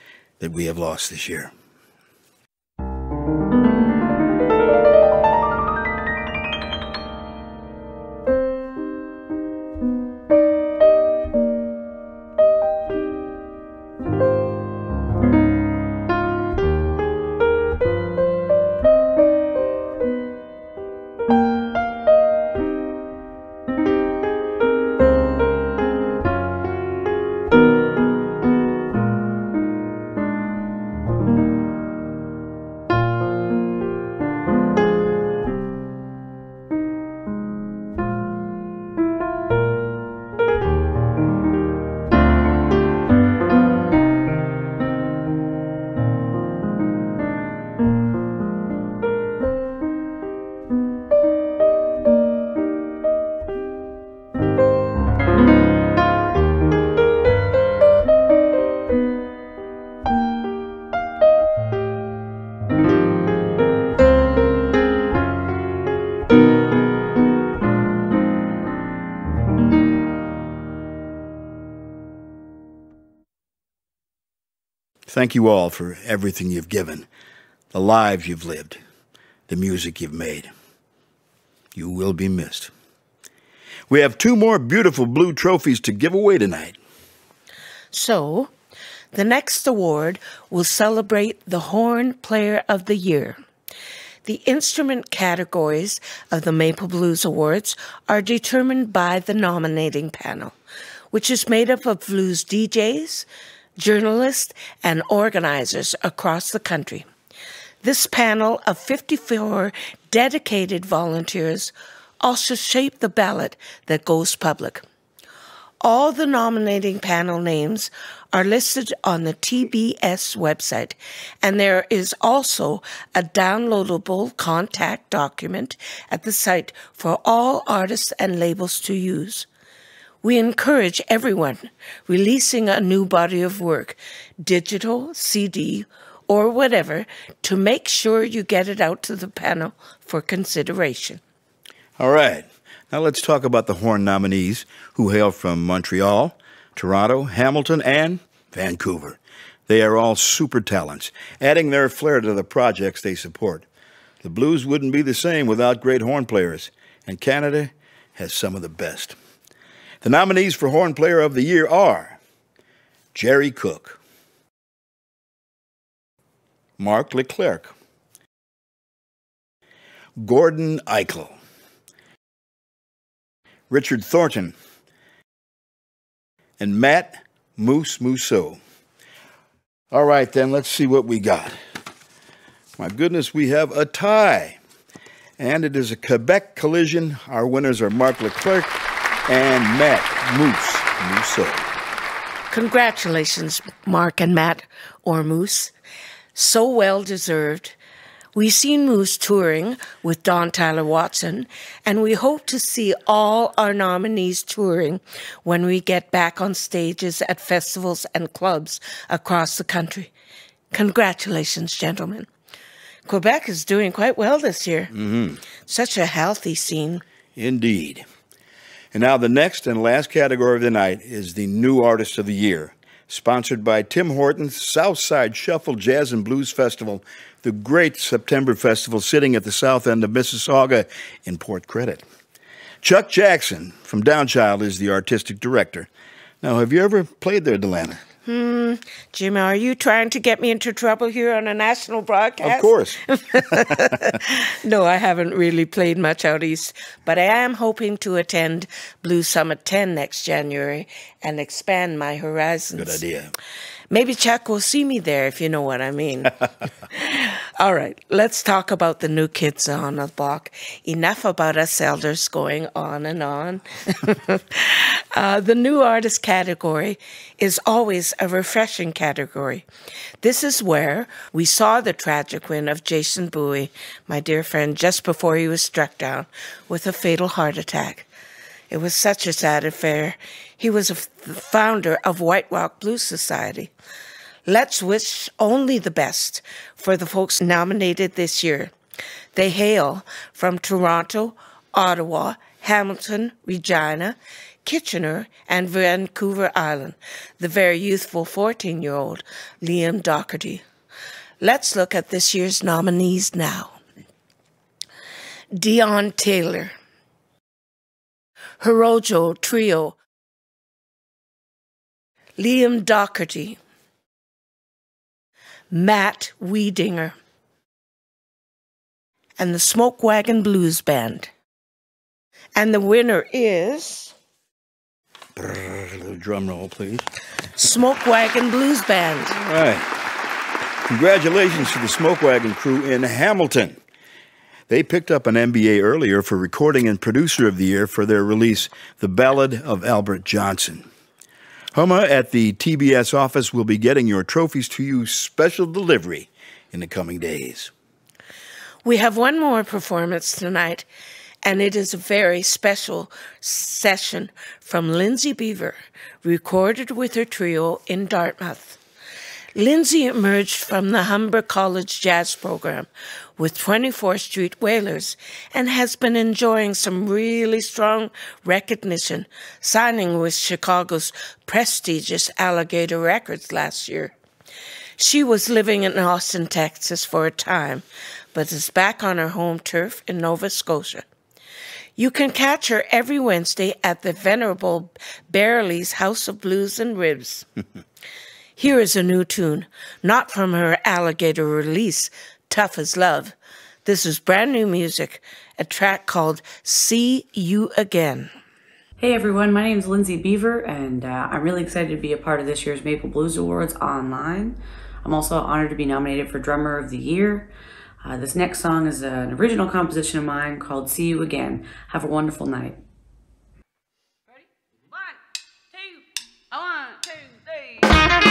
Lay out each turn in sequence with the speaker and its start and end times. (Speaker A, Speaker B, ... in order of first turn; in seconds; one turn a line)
Speaker A: 0.4-1.5
Speaker A: 75.1-77.1
Speaker A: 77.7-78.8
Speaker A: 79.5-80.5
Speaker A: 81.7-82.7
Speaker A: 83.9-86.8
Speaker B: 87.9-88.5
Speaker B: 89.1-93.4
Speaker B: 94.2-100.5
Speaker B: 101.1-103.3
Speaker B: 103.8-107.1
Speaker B: 107.8-114.8
Speaker B: 115.8-129.5
Speaker B: 130.2-141.2
Speaker A: 142.0-153.7
Speaker A: 154.2-159.2
Speaker A: 160.0-162.2
Speaker A: 163.1-164.0
Speaker A: 166.8-167.7
Speaker A: 170.2-171.3
Speaker A: 173.7-174.5
Speaker A: 176.6-178.6
Speaker A: 179.9-181.6
Speaker A: 182.8-184.6
Speaker A: 185.4-188.7
Speaker A: 189.3-191.7
Speaker B: 192.5-195.7
Speaker B: 196.3-197.8
Speaker B: 198.3-210.1
Speaker B: 210.7-212.3
Speaker B: 213.1-214.9
Speaker A: 214.9-215.4
Speaker B: 215.6-217.0
Speaker A: 217.3-218.0
Speaker A: 218.9-232.0
Speaker A: 232.8-235.9
Speaker A: 236.4-238.0
Speaker B: 238.2-253.0
Speaker A: 242.4-243.0
Speaker A: 252.8-253.3
Speaker B: 253.9-269.6
Speaker B: 270.2-278.1
Speaker B: 278.7-283.7
Speaker B: 284.5-288.7
Speaker B: 289.3-300.6
Speaker B: 301.4-303.8
Speaker B: 305.5-306.7
Speaker B: 308.6-310.0
Speaker B: 312.4-313.6
Speaker B: 315.7-317.2
Speaker B: 319.4-321.3
Speaker B: 322.6-324.1
Speaker A: 325.4-327.1
Speaker B: 327.6-329.4
Speaker A: 329.4-329.9
Speaker A: 330.9-333.8
Speaker A: 334.7-340.9
Speaker A: 341.7-347.7
Speaker B: 348.8-350.9
Speaker B: 351.4-358.8
Speaker B: 359.5-374.1
Speaker B: 375.0-381.0
Speaker B: 382.0-387.5
Speaker B: 388.6-398.3
Speaker C: 399.0-407.5
Speaker C: 408.0-412.8
Speaker C: 416.5-417.4